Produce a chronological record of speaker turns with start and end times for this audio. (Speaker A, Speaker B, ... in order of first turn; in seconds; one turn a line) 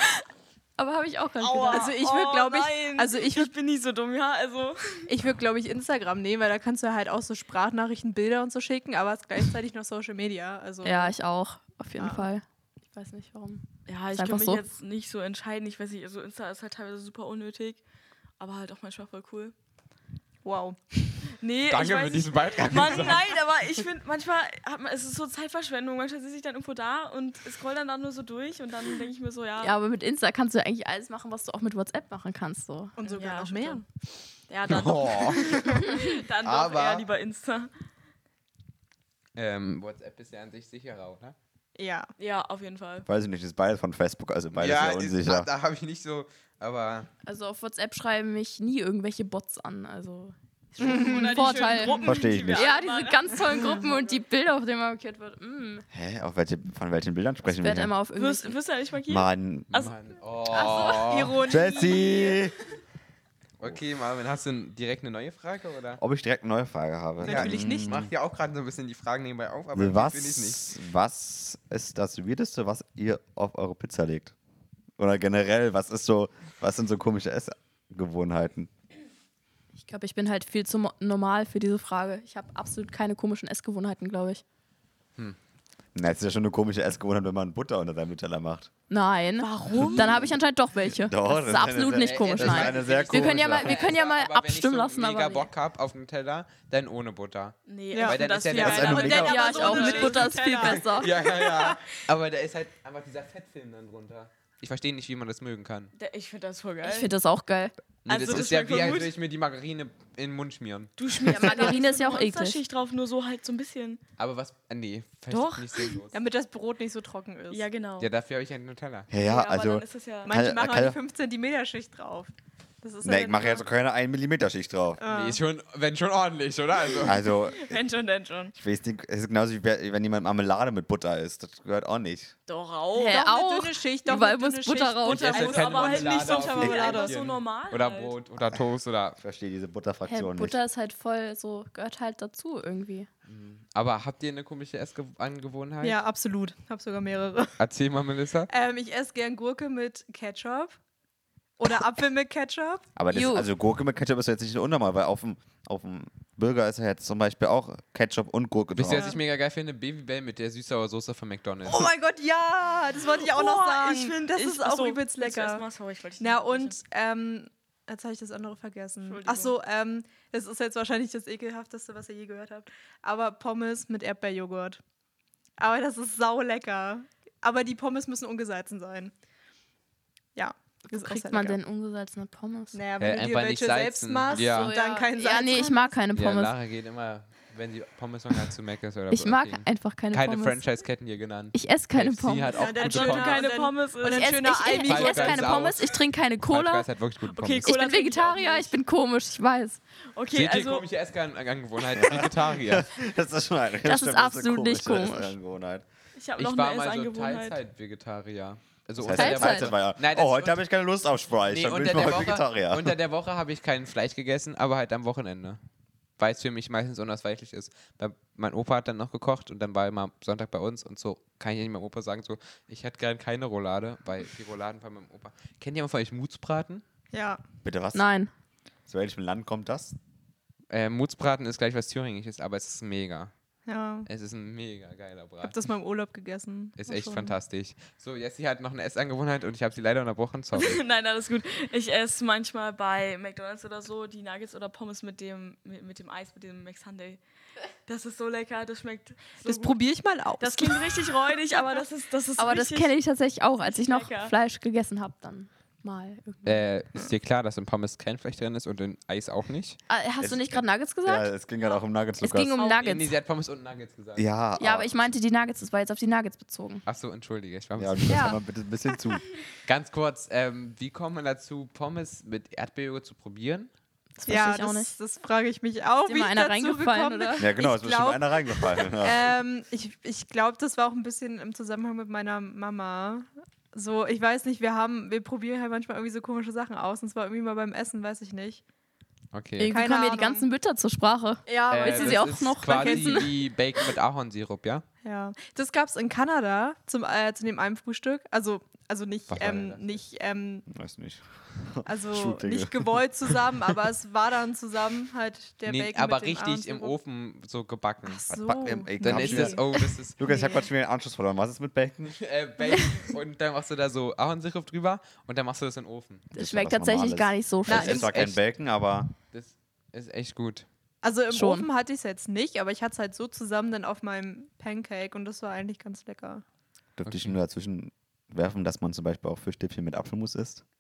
Speaker A: 0.8-1.9
Speaker B: 1.4-5.1
Speaker C: 1.7-3.5
Speaker C: 5.1-11.2
Speaker A: 10.8-14.6
Speaker C: 12.0-12.3
Speaker B: 13.9-17.8
Speaker B: 18.4-19.5
Speaker C: 20.4-20.8
Speaker B: 21.4-29.8
Speaker D: 21.7-23.4
Speaker A: 29.6-33.0
Speaker C: 33.0-33.9
Speaker B: 33.0-33.8
Speaker B: 34.5-37.7
Speaker D: 34.7-37.0
Speaker D: 39.4-41.4
Speaker C: 41.8-42.1
Speaker B: 42.2-43.1
Speaker E: 43.1-45.5
Speaker D: 44.5-47.1
Speaker A: 47.2-55.9
Speaker B: 50.8-54.2
Speaker C: 50.8-51.8
Speaker E: 52.0-52.7
Speaker E: 55.9-57.9
Speaker A: 57.5-58.6
Speaker B: 58.1-60.0
Speaker E: 59.1-59.7
Speaker D: 59.7-61.5
Speaker A: 60.5-61.2
Speaker C: 61.0-62.4
Speaker E: 61.5-62.5
Speaker B: 61.8-62.4
Speaker D: 63.6-66.0
Speaker E: 66.0-68.1
Speaker C: 67.2-68.0
Speaker D: 67.2-70.6
Speaker E: 69.7-74.3
Speaker E: 75.0-78.7
Speaker A: 79.8-84.4
Speaker E: 85.9-88.7
Speaker A: 88.9-95.5
Speaker B: 89.4-90.2
Speaker C: 89.7-90.0
Speaker E: 90.9-93.9
Speaker D: 92.0-99.1
Speaker B: 97.7-100.9
Speaker C: 97.9-100.8
Speaker E: 98.6-99.4
Speaker A: 99.1-101.2
Speaker D: 100.7-105.9
Speaker C: 101.4-101.8
Speaker B: 106.0-107.1
Speaker A: 106.8-107.7
Speaker D: 108.1-111.0
Speaker B: 108.1-109.1
Speaker B: 111.0-114.0
Speaker A: 111.3-112.6
Speaker D: 114.2-116.2
Speaker B: 115.3-116.0
Speaker C: 116.1-117.6
Speaker B: 117.5-118.1
Speaker D: 118.0-119.1
Speaker E: 119.1-121.0
Speaker B: 119.2-120.3
Speaker C: 120.2-123.6
Speaker E: 123.0-125.0
Speaker C: 125.0-125.4
Speaker D: 125.1-127.3
Speaker B: 127.0-128.5
Speaker E: 127.1-127.8
Speaker E: 128.6-132.3
Speaker B: 132.5-133.2
Speaker A: 132.9-135.4
Speaker C: 133.1-137.2
Speaker D: 135.1-139.2
Speaker B: 135.1-138.2
Speaker E: 139.2-140.6
Speaker A: 140.1-143.1
Speaker D: 143.3-146.0
Speaker C: 145.8-147.6
Speaker D: 147.6-148.5
Speaker C: 148.5-150.8
Speaker C: 151.6-152.9
Speaker E: 153.0-159.2
Speaker A: 153.1-153.5
Speaker D: 158.8-161.9
Speaker C: 161.7-165.7
Speaker B: 163.2-166.8
Speaker C: 166.2-174.8
Speaker B: 169.0-169.6
Speaker C: 175.6-179.1
Speaker C: 180.3-181.6
Speaker A: 180.9-182.8
Speaker C: 182.7-186.0
Speaker D: 183.0-184.8
Speaker A: 184.3-186.5
Speaker D: 186.1-193.5
Speaker A: 189.1-190.6
Speaker A: 191.5-193.1
Speaker C: 192.5-195.8
Speaker B: 192.8-194.4
Speaker A: 194.1-196.9
Speaker D: 194.8-197.7
Speaker B: 197.3-198.7
Speaker A: 197.6-199.8
Speaker B: 200.1-200.9
Speaker D: 200.3-202.9
Speaker E: 202.0-205.8
Speaker A: 203.8-205.3
Speaker B: 206.2-207.6
Speaker D: 206.4-210.6
Speaker E: 209.0-213.0
Speaker A: 209.1-209.7
Speaker D: 211.4-215.6
Speaker D: 216.2-226.8
Speaker C: 227.1-227.4
Speaker E: 227.6-228.1
Speaker A: 227.9-228.3
Speaker E: 228.9-230.0
Speaker D: 230.7-233.3
Speaker C: 233.7-234.1
Speaker D: 234.1-235.6
Speaker C: 235.4-237.4
Speaker D: 236.8-240.8
Speaker B: 240.6-247.2
Speaker B: 247.9-249.8
Speaker C: 249.4-251.2
Speaker B: 250.4-252.9
Speaker A: 252.4-256.7
Speaker B: 253.6-254.3
Speaker D: 256.4-259.8
Speaker A: 259.9-261.3
Speaker E: 260.2-262.6
Speaker A: 262.2-263.1
Speaker B: 262.6-262.9
Speaker D: 262.8-264.3
Speaker E: 264.2-265.1
Speaker A: 264.6-266.8
Speaker D: 266.9-268.4
Speaker E: 267.8-269.3
Speaker A: 268.1-268.4
Speaker D: 269.6-273.7
Speaker A: 274.2-274.9
Speaker C: 274.3-288.6
Speaker A: 276.1-277.5
Speaker E: 277.4-279.3
Speaker D: 289.3-289.8
Speaker A: 289.6-293.3
Speaker C: 289.7-290.5
Speaker C: 291.5-293.3
Speaker D: 291.7-294.9
Speaker C: 295.0-300.7
Speaker D: 299.3-300.0
Speaker E: 300.7-303.0
Speaker C: 301.9-307.0
Speaker D: 305.6-308.2
Speaker C: 308.0-310.7
Speaker E: 308.3-312.2
Speaker D: 309.0-310.2
Speaker D: 312.2-316.3
Speaker E: 316.3-319.1
Speaker A: 316.4-318.2
Speaker C: 317.7-318.1
Speaker D: 319.3-320.7
Speaker C: 321.0-326.4
Speaker A: 321.3-321.7
Speaker E: 327.0-330.6
Speaker D: 327.1-327.4